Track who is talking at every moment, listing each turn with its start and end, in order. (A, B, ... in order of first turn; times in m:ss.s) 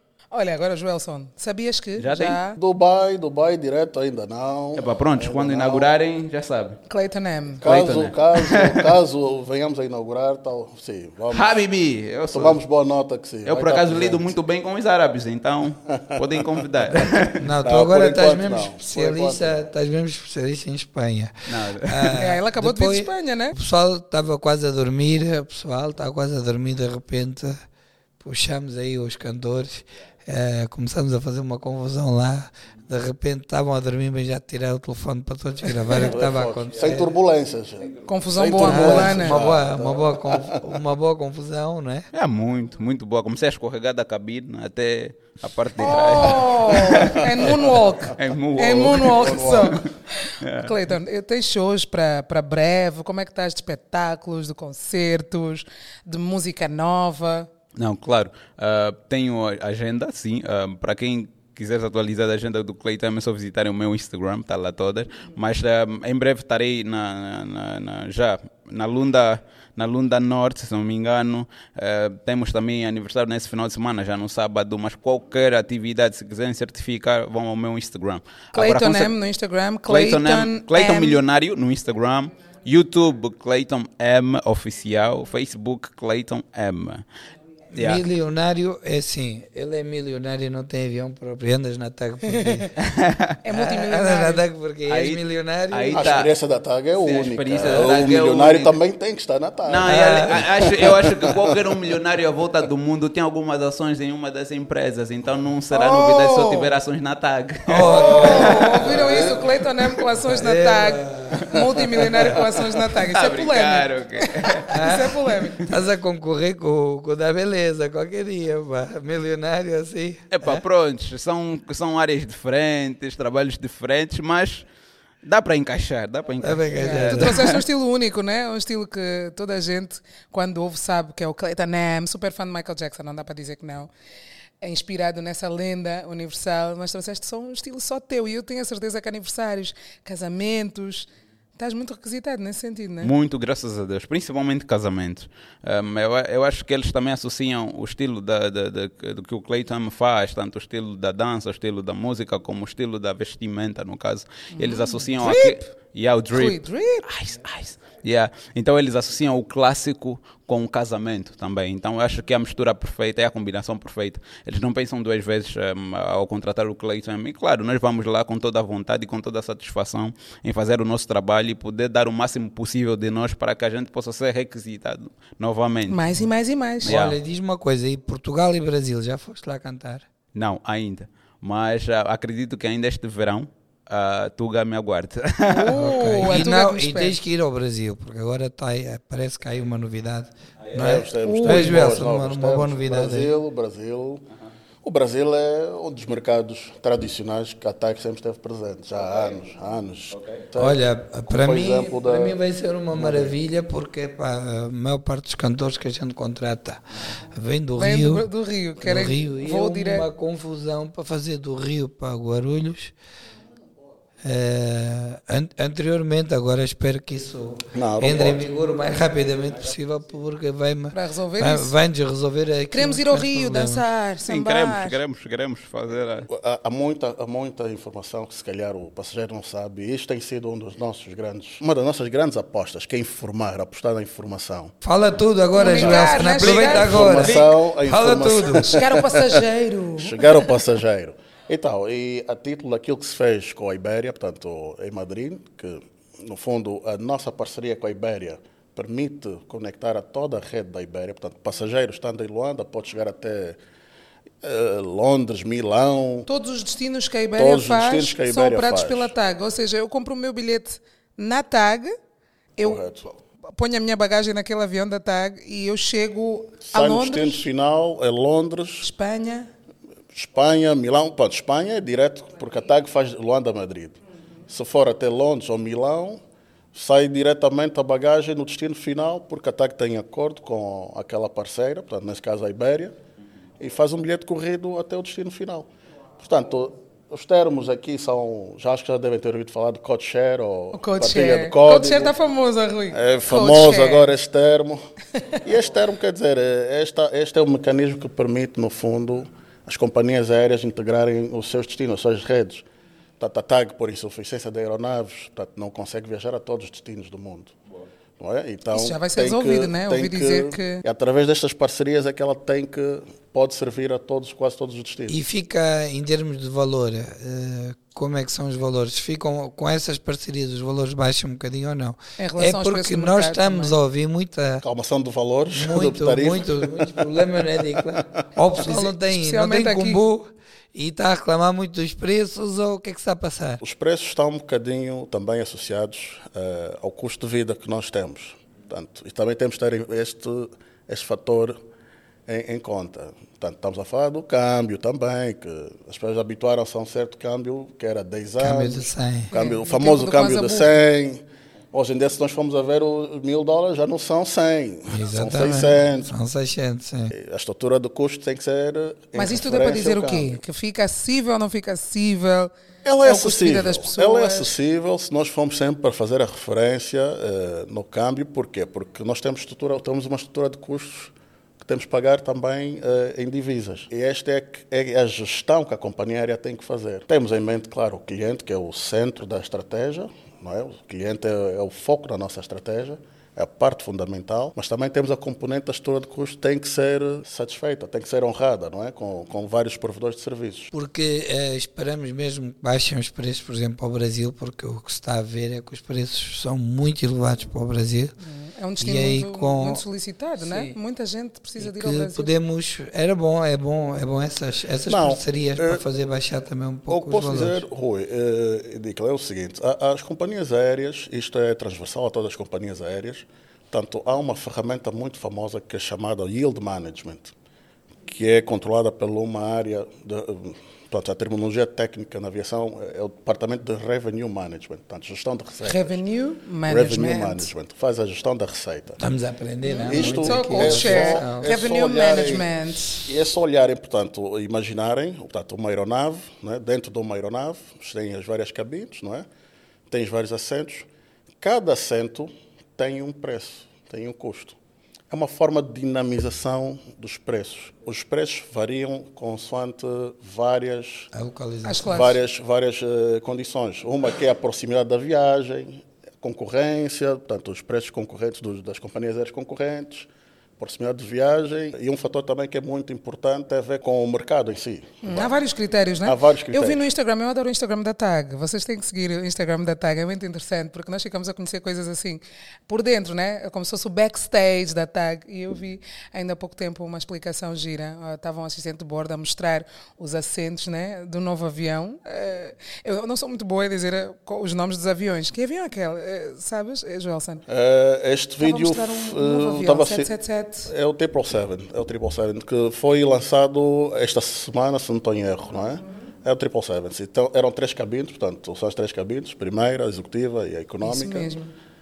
0:00.3-0:02.6 A
0:02.0-0:02.4 B
0:02.6-0:05.9 C
0:04.8-0:06.8 B
0:06.9-0:07.6 A
0:07.6-0:11.6 C
0:07.6-0:08.9 B
0:11.3-0:12.6 B
0:12.3-0:14.3 C
0:13.4-0:17.5 B
0:15.9-0:16.7 C
0:16.9-0:27.6 D
0:17.6-0:19.6 C
0:21.5-0:22.2 B
0:22.2-0:23.6 A
0:28.2-0:37.1 D
0:35.9-0:40.6 C
0:38.1-0:39.4 A
0:38.6-0:42.1 D
0:42.1-0:49.9 B
0:45.8-0:57.5 A
0:47.4-0:48.1 C
0:49.0-0:49.8 C
0:50.4-0:50.8 B
0:57.8-1:19.1 B
1:18.6-1:21.2 A
1:19.9-1:27.0 B
1:27.7-1:32.7 D
1:27.7-1:28.0 B
1:32.3-1:32.7 A
1:32.8-1:33.4 B
1:33.4-1:34.4 A
1:33.5-1:36.2 D
1:34.9-1:36.3 B
1:35.9-1:41.8 C
1:37.0-1:38.7 B
1:39.7-1:50.0 B
1:39.9-1:40.5 D
1:45.7-1:46.7 A
1:47.7-1:49.4 D
1:47.8-1:55.6 A
1:50.2-1:52.4 D
1:53.0-1:55.7 B
1:54.7-2:00.6 D
2:00.3-2:04.6 B
2:05.2-2:07.6 B
2:06.4-2:07.4 D
2:06.8-2:13.9 A
2:14.6-2:23.1 A
2:23.0-2:56.1 B
2:34.6-2:35.6 A
2:36.3-2:37.1 A
2:55.9-2:57.0 A
2:56.8-2:57.2 B
2:56.8-3:00.1 D
3:00.3-3:06.4 B
3:05.5-3:07.2 A
3:05.8-3:13.3 D
3:10.7-3:11.0 B
3:10.7-3:14.3 C
3:11.2-3:11.8 A
3:14.8-3:22.4 C
3:20.1-3:20.4 B
3:20.6-3:28.3 D
3:22.9-3:23.4 C
3:27.8-3:30.1 A
3:28.8-3:32.9 D
3:34.2-3:43.8 D
3:37.7-3:38.4 C
3:40.9-3:41.8 A
3:42.7-3:45.0 A
3:44.3-3:46.3 B
3:46.3-3:54.7 C
3:54.8-3:58.7 D
3:55.5-3:57.4 A
3:55.7-3:59.4 C
3:57.2-3:57.5 B
3:58.6-4:00.4 A
4:00.0-4:13.6 C
4:14.4-4:16.3 C
4:16.3-4:22.0 A
4:17.4-4:19.1 C
4:22.6-4:23.1 C
4:23.5-4:27.5 A
4:26.6-4:28.9 C
4:28.8-4:29.5 A
4:30.1-4:36.2 C
4:36.7-4:43.0 C
4:43.6-4:45.7 C
4:46.2-4:52.1 C
4:50.7-4:54.1 A
4:52.9-4:54.8 C
4:55.4-5:02.7 C
5:03.2-5:07.6 C
5:08.2-5:15.2 C
5:08.7-5:10.8 A
5:15.1-5:24.6 D
5:22.2-5:23.8 A
5:24.6-5:28.0 C
5:25.5-5:33.6 D
5:28.6-5:30.0 A
5:33.6-5:41.6 C
5:42.3-5:56.1 C
5:48.4-5:49.3 D
5:49.3-5:50.7 A
5:54.9-5:57.1 D
5:57.1-6:00.4 C
5:59.2-6:02.5 A
6:02.8-6:30.7 C
6:03.0-6:04.5 A
6:30.7-6:38.1 D
6:38.2-6:42.3 A
6:38.8-6:39.8 D
6:40.4-6:40.8 D
6:41.6-6:47.6 D
6:44.9-6:45.8 C
6:46.9-6:57.3 C
6:58.1-7:06.0 C
7:05.7-7:07.5 A
7:06.6-7:09.0 C
7:09.0-7:11.5 D
7:09.6-7:13.1 A
7:09.8-7:19.3 C
7:19.9-7:20.9 C
7:21.4-7:24.6 C
7:25.1-7:31.1 C
7:31.1-7:32.1 D
7:31.6-7:32.1 A
7:31.9-7:45.3 C
7:45.0-8:07.4 A
7:46.0-7:46.9 C
8:07.5-8:10.1 C
8:08.4-8:10.7 A
8:10.6-8:21.3 C
8:20.8-8:21.5 A